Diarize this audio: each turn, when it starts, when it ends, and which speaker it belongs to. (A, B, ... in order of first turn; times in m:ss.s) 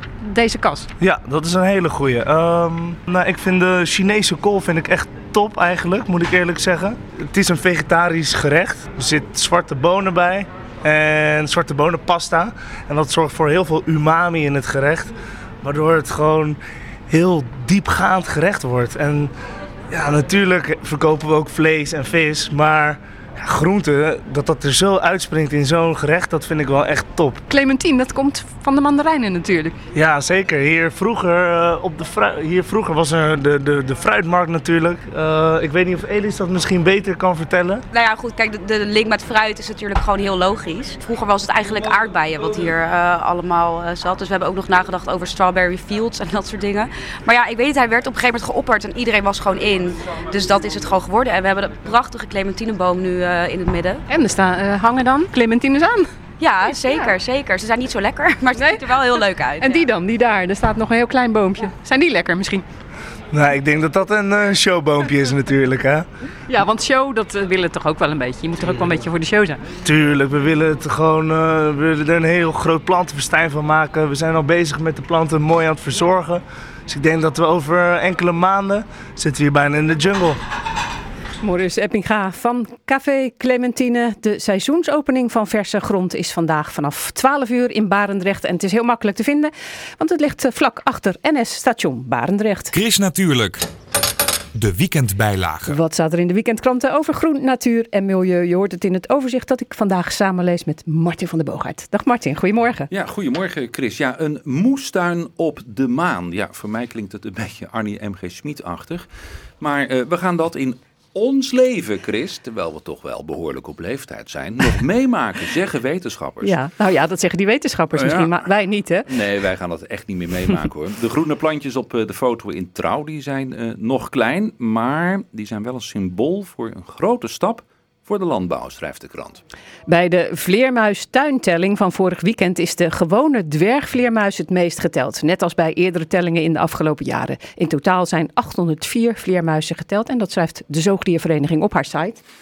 0:00.2-0:00.9 A
0:01.0-0:16.6 B
0:17.1-0:19.3 B
0:19.9-0:27.4 B
0:27.5-0:29.8 A
0:29.9-0:37.8 B
0:37.9-0:54.0 C
0:54.1-0:56.1 A
0:56.4-0:59.9 C
0:56.7-0:57.1 A
0:58.6-0:59.0 A
0:59.6-1:02.6 A
1:03.3-1:06.1 B
1:06.5-1:09.6 A
1:09.8-1:20.4 B
1:21.4-1:32.7 A
1:32.7-1:33.7 D
1:34.5-1:35.8 D
1:35.7-1:42.9 A
1:42.9-1:49.1 E
1:49.6-1:56.6 E
1:56.4-1:59.1 A
1:57.9-1:58.4 E
1:59.1-2:09.4 E
2:09.9-2:22.2 A